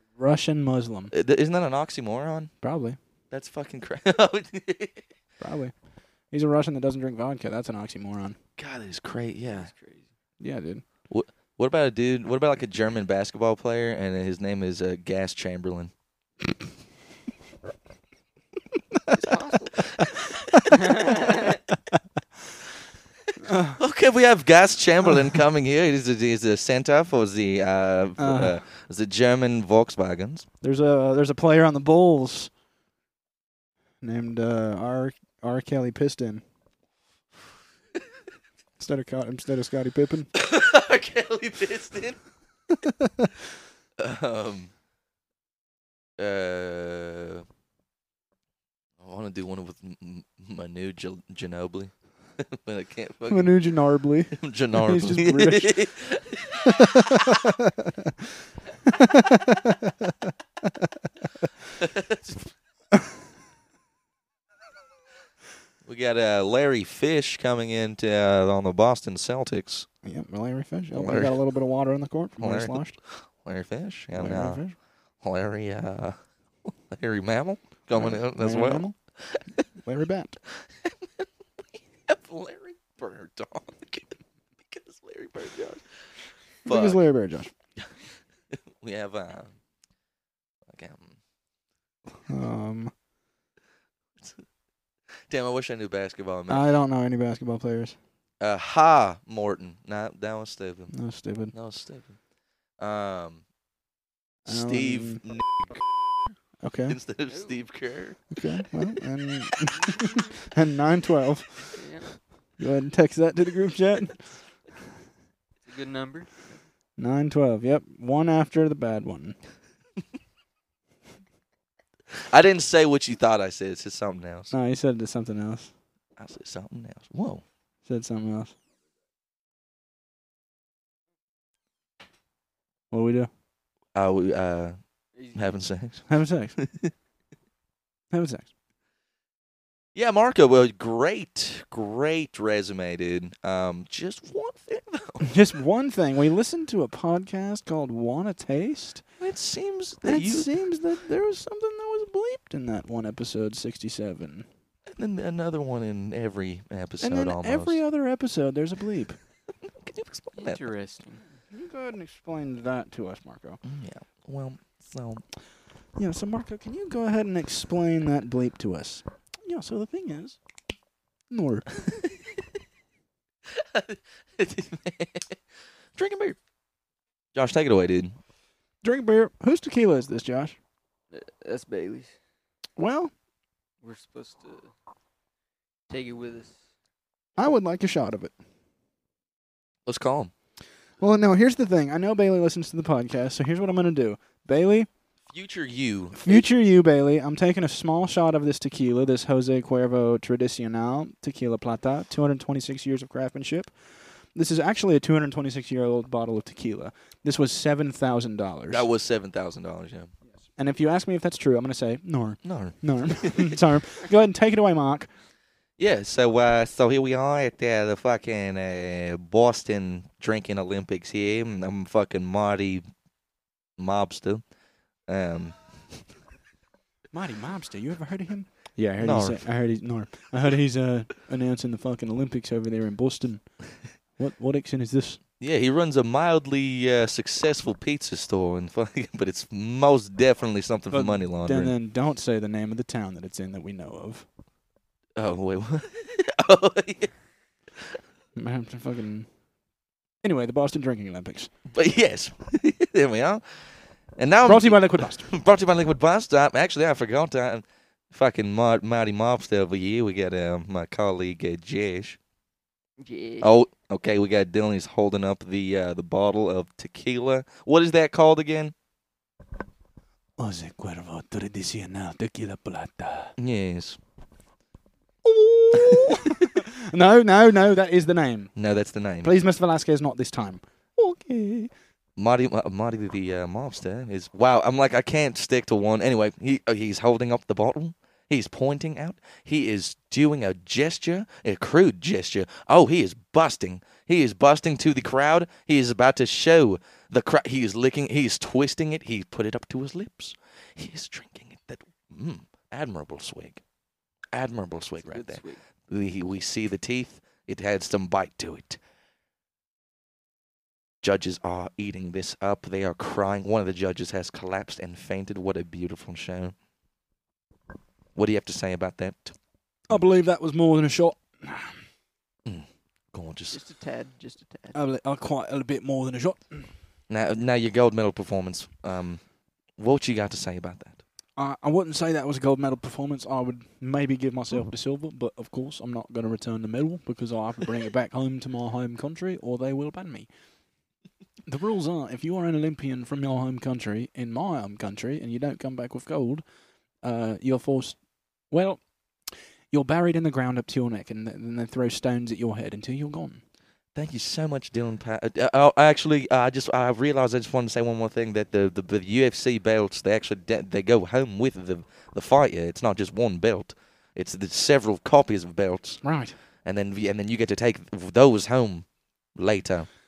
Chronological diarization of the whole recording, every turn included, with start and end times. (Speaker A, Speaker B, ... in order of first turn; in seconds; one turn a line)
Speaker A: 0.2-1.1
Speaker B: 1.1-2.5
Speaker A: 2.6-3.0
Speaker B: 3.3-5.1
Speaker A: 5.4-5.8
Speaker A: 6.3-8.4
Speaker B: 8.6-9.7
Speaker C: 9.5-10.1
Speaker A: 10.4-10.8
Speaker B: 11.1-15.9
Speaker C: 19.1-19.9
Speaker B: 19.9-20.9
Speaker C: 20.7-21.6
Speaker A: 23.4-23.8
Speaker B: 23.8-30.4
Speaker A: 28.2-28.6
Speaker A: 30.6-32.5
Speaker A: 34.0-36.4
Speaker A: 38.8-40.3
Speaker B: 40.4-42.2
Speaker A: 42.8-43.3
Speaker B: 44.0-44.7
Speaker B: 46.2-47.5
Speaker B: 49.0-53.6
Speaker A: 53.3-55.9
Speaker B: 54.3-56.9
Speaker A: 56.6-58.1
Speaker A: 58.9-60.3
Speaker B: 61.8-62.5
Speaker B: 65.8-69.9
Speaker A: 70.0-73.0
Speaker B: 70.9-71.4
Speaker B: 72.4-74.7
Speaker A: 74.1-74.7
Speaker B: 75.2-79.6
Speaker A: 77.9-79.0
Speaker A: 79.8-80.4
Speaker B: 80.5-87.0
Speaker A: 86.7-87.5
Speaker B: 88.5-89.6
Speaker B: 90.7-91.2
Speaker A: 92.3-92.9
Speaker B: 94.2-94.5
Speaker B: 95.3-96.7
Speaker A: 96.5-98.0
Speaker B: 98.4-100.9
Speaker A: 100.9-101.5
Speaker B: 101.5-102.2
Speaker B: 102.8-103.4
Speaker A: 104.5-105.2
Speaker B: 104.5-105.8
Speaker A: 106.6-107.0
Speaker B: 106.9-108.3
Speaker C: 107.3-107.6
Speaker A: 108.3-111.8
Speaker C: 111.6-112.2
Speaker A: 112.6-114.2
Speaker C: 115.6-116.6
Speaker A: 117.0-119.3
Speaker B: 122.1-124.5
Speaker A: 124.5-125.7
Speaker B: 126.2-127.4
Speaker A: 127.8-128.5
Speaker A: 132.9-133.3
Speaker B: 133.9-134.8
Speaker C: 135.2-135.5
Speaker B: 135.3-136.9
Speaker A: 136.1-136.6
Speaker A: 138.1-138.5
Speaker B: 139.9-145.3
Speaker A: 145.2-149.0
Speaker B: 149.2-150.5
Speaker A: 150.0-154.4
Speaker B: 154.9-157.8
Speaker A: 157.0-159.2
Speaker B: 159.6-160.6
Speaker C: 160.3-161.4
Speaker A: 161.5-163.6
Speaker B: 163.6-165.2
Speaker A: 165.9-170.4
Speaker A: 171.3-171.7
Speaker B: 173.5-175.4
Speaker B: 175.9-176.4
Speaker B: 177.3-178.2
Speaker A: 178.8-180.6
Speaker C: 181.1-182.2
Speaker A: 182.8-183.1
Speaker C: 183.8-184.7
Speaker C: 185.9-186.6
Speaker A: 187.4-188.3
Speaker B: 189.8-190.3
Speaker A: 191.0-194.9
Speaker B: 195.3-196.5
Speaker A: 196.2-208.9
Speaker B: 208.7-210.1
Speaker A: 210.6-215.1
Speaker B: 212.4-213.6
Speaker B: 215.8-222.8
Speaker B: 223.8-224.4
Speaker B: 225.1-226.1
Speaker A: 227.1-235.2
Speaker B: 229.0-229.4
Speaker B: 235.4-241.7
Speaker A: 240.9-244.3
Speaker B: 245.2-247.1
Speaker A: 248.3-249.3
Speaker A: 250.2-251.5
Speaker B: 251.7-262.2
Speaker A: 254.4-255.3
Speaker C: 263.0-263.5
Speaker B: 263.4-268.7
Speaker A: 270.4-273.3
Speaker B: 273.4-274.0
Speaker A: 275.2-278.5
Speaker B: 275.8-276.4
Speaker B: 278.6-279.3
Speaker A: 279.2-281.7
Speaker B: 282.2-303.6
Speaker B: 304.3-308.8
Speaker C: 305.0-305.6
Speaker B: 311.0-316.6
Speaker B: 318.1-319.3
Speaker A: 319.9-321.8
Speaker B: 322.4-323.6
Speaker C: 323.5-324.8
Speaker A: 324.7-326.7
Speaker B: 327.1-329.2
Speaker B: 329.8-331.0
Speaker A: 331.4-340.3
Speaker A: 341.5-346.4
Speaker A: 347.0-348.0
Speaker A: 348.5-348.8
Speaker A: 349.7-353.4
Speaker B: 353.9-366.0
Speaker A: 366.0-366.4
Speaker B: 366.6-369.9